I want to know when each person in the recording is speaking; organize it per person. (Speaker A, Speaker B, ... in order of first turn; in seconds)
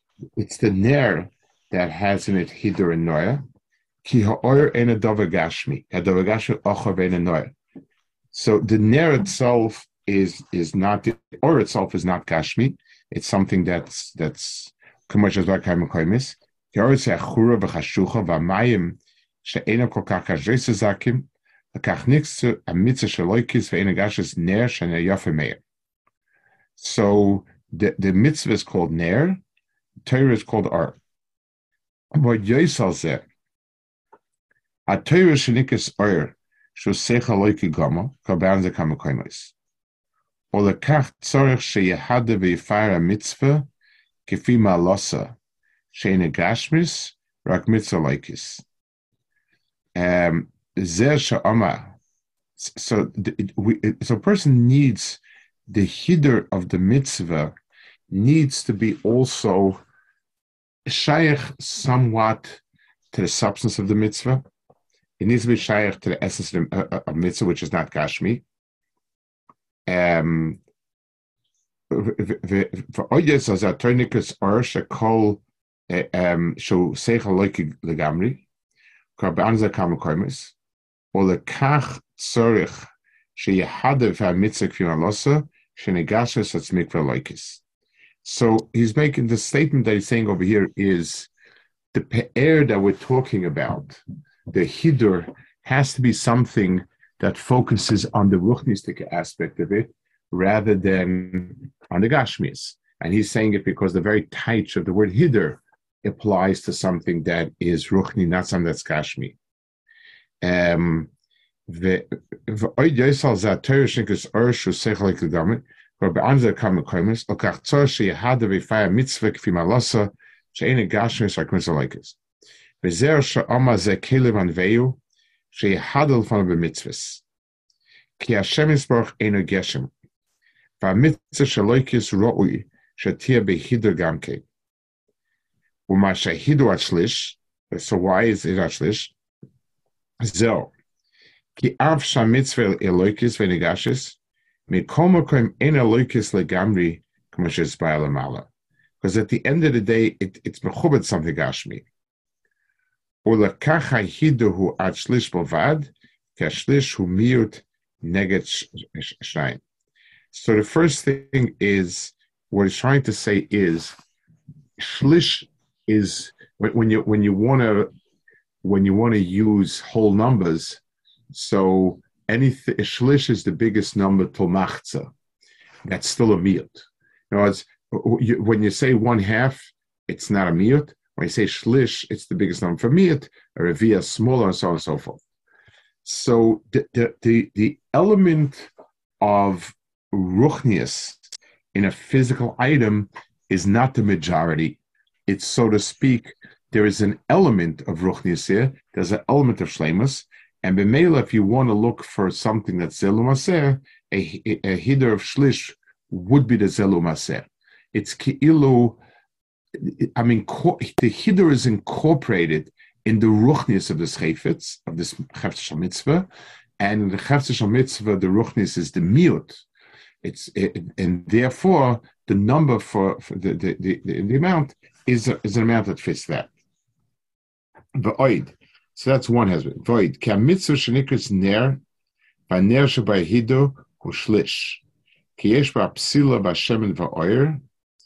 Speaker A: 0.4-3.4, 4.0-7.5, 8.3-25.6, 26.8-29.4, 30.1-31.0, 32.1-33.3, 34.9-39.5, 40.5-43.7, 44.3-45.4, 45.9-48.6, 50.0-52.0, 52.6-57.5, 58.1-59.8, 60.9-62.6, 63.1-64.4, 65.2-68.4, 69.9-70.6, 71.9-78.5, 79.2-80.5, 81.1-87.6, 88.2-91.3, 91.9-109.4, 110.4-111.1, 111.7-122.2, 122.8-125.0, 125.5-127.2, 128.2-129.9, 130.8-134.4, 135.9-139.1, 140.2-140.7, 141.6-144.2, 144.7-148.5, 149.0-151.8, 153.2-159.6, 160.3-163.9, 164.8-167.9, 168.6-170.8, 171.3-175.1, 175.9-185.2, 186.0-188.7, 189.2-191.2, 191.7-209.0, 209.8-216.3, 216.8-219.6, 220.2-226.5, 228.0-231.8, 232.5-234.8, 235.4-237.6